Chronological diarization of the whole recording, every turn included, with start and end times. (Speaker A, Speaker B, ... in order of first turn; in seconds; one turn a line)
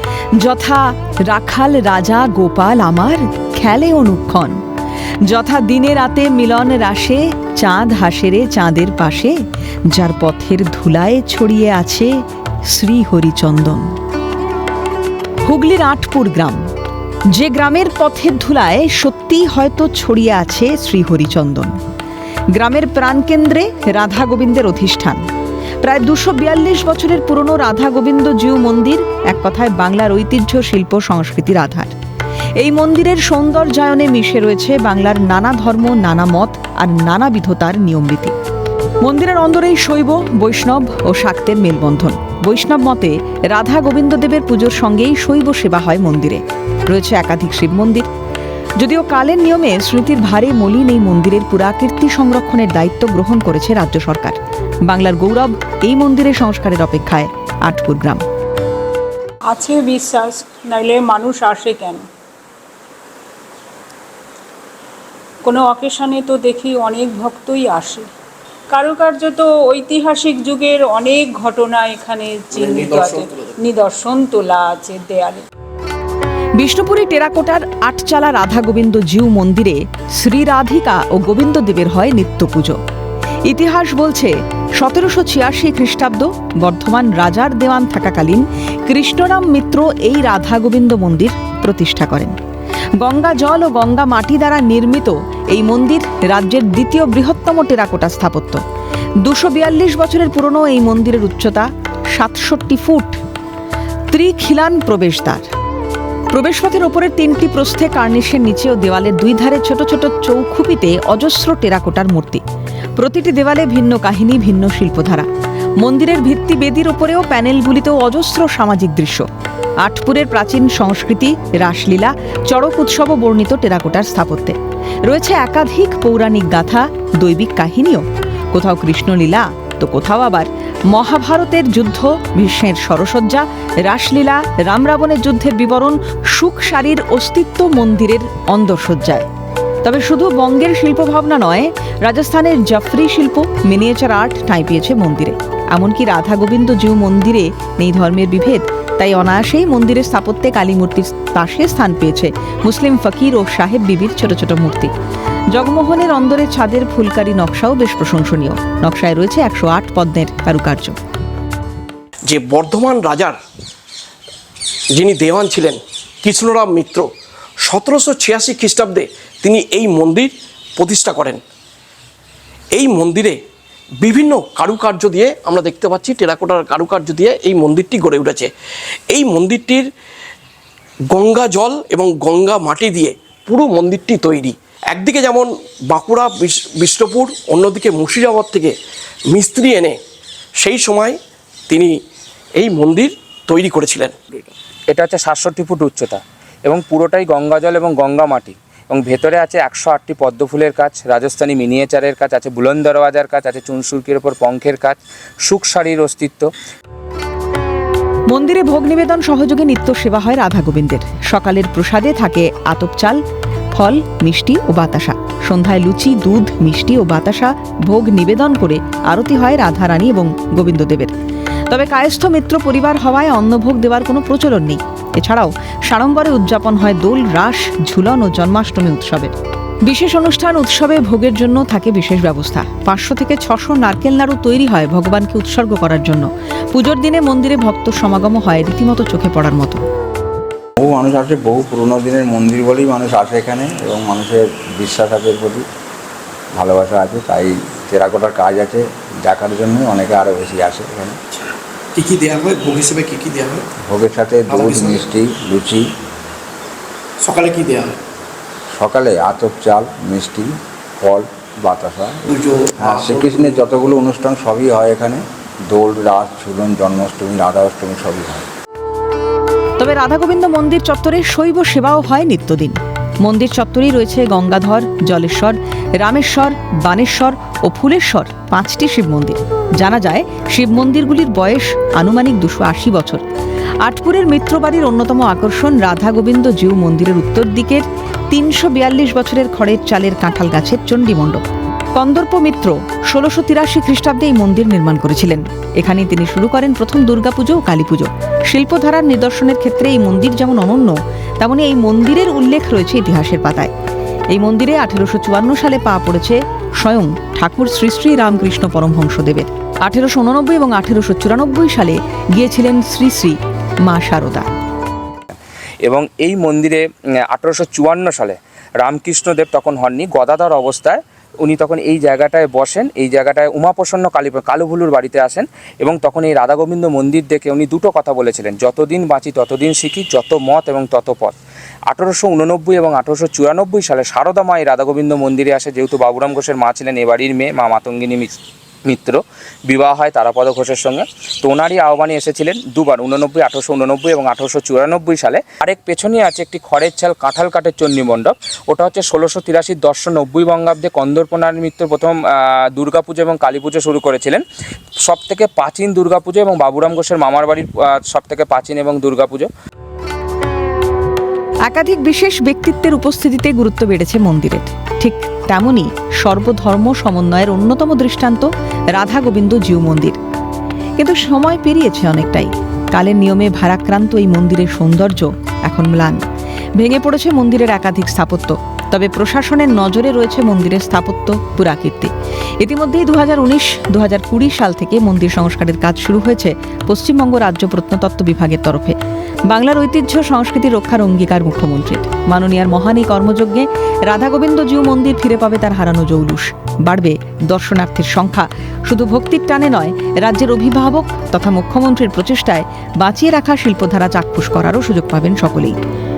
Speaker A: 0.4-4.6
Speaker A: 5.3-9.4
Speaker A: 9.9-12.1
Speaker A: 12.7-13.9
Speaker A: 15.4-16.6
Speaker A: 17.3-21.8
Speaker A: 22.5-25.2
Speaker A: 25.8-31.9
Speaker A: 32.6-38.3
Speaker A: 39.0-48.1
Speaker A: 48.8-58.2
Speaker B: 59.5-62.1
Speaker B: 65.4-68.1
Speaker B: 68.7-75.4
Speaker C: 72.8-73.2
Speaker A: 76.6-82.8
Speaker A: 83.5-92.3
Speaker A: 93.0-98.6
Speaker A: 99.2-103.2
Speaker A: 104.1-105.5
Speaker A: 106.3-112.4
Speaker A: 113.0-115.3
Speaker A: 115.8-119.3
Speaker A: 119.8-124.5
Speaker A: 125.1-139.3
Speaker A: 139.8-154.9
Speaker A: 155.5-161.0
Speaker D: 162.3-163.4
Speaker D: 164.9-167.1
Speaker D: 167.6-171.4
Speaker D: 172.7-173.4
Speaker D: 174.0-178.5
Speaker D: 179.1-179.9
Speaker D: 181.1-188.8
Speaker D: 189.3-190.0
Speaker D: 190.6-191.2
Speaker D: 191.7-192.0
Speaker D: 192.6-194.5
Speaker E: 194.9-206.5
Speaker A: 208.3-213.2
Speaker A: 213.7-221.1
Speaker A: 221.7-229.3
Speaker A: 229.9-239.8
Speaker F: 240.8-245.7
Speaker F: 246.6-251.2
Speaker C: 251.9-253.7
Speaker F: 253.9-255.9
Speaker C: 254.5-255.1
Speaker C: 257.2-258.0
Speaker F: 258.7-268.5
Speaker C: 262.3-263.7
Speaker A: 269.8-283.2
Speaker A: 283.8-291.4
Speaker A: 291.9-303.7
Speaker A: 304.3-314.5
Speaker E: 315.8-331.4
Speaker E: 331.9-354.4
Speaker E: 355.0-359.5
Speaker A: 361.7-370.2
Speaker A: 371.0-376.2
Speaker A: 376.8-389.0
Speaker A: 389.5-405.8